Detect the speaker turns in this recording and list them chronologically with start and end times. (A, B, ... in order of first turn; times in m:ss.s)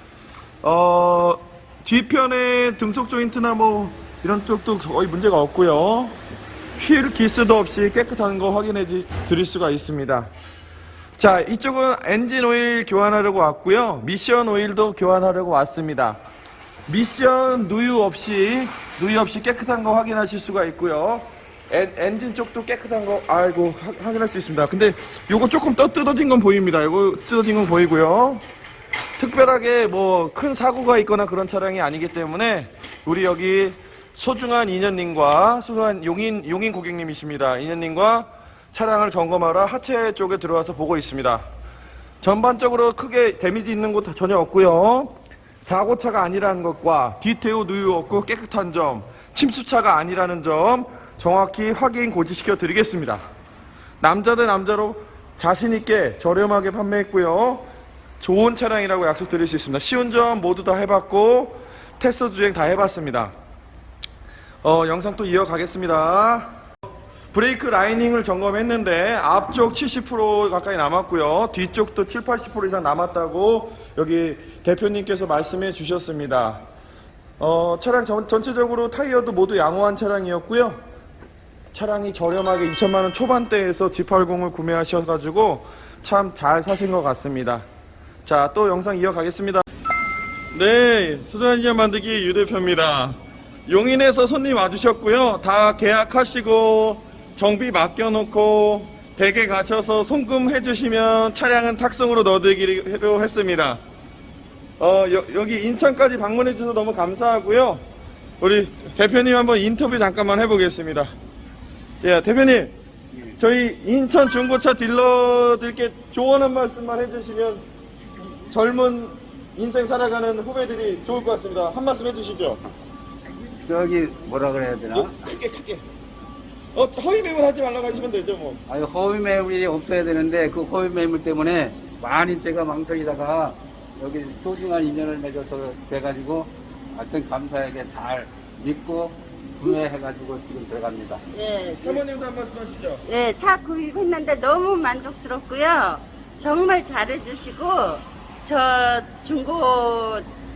0:00.6-0:06.2 A
0:06.8-0:10.3 A
0:11.2-0:16.2 A
0:16.9-0:28.4 A
0:29.2-0:41.5 A
0:42.2-0:53.2 A
0:54.0-0:57.7 A
0:58.2-1:03.3 A
1:04.6-1:06.6 A
1:07.3-1:16.6 A
1:17.4-1:20.8 A
1:21.7-1:27.7 A
1:28.2-1:29.6 A
1:30.5-1:43.8 A
1:44.8-1:47.8 A
1:48.4-1:51.1 A
1:52.0-1:52.7 A
1:53.4-1:57.6 A
1:58.3-2:02.6 A
2:03.4-2:05.2 B
2:05.0-2:05.8 A
2:06.7-2:08.6 A
2:08.7-2:21.2 B
2:21.3-2:22.0 C
2:21.8-2:23.0 A
2:23.1-2:30.2 C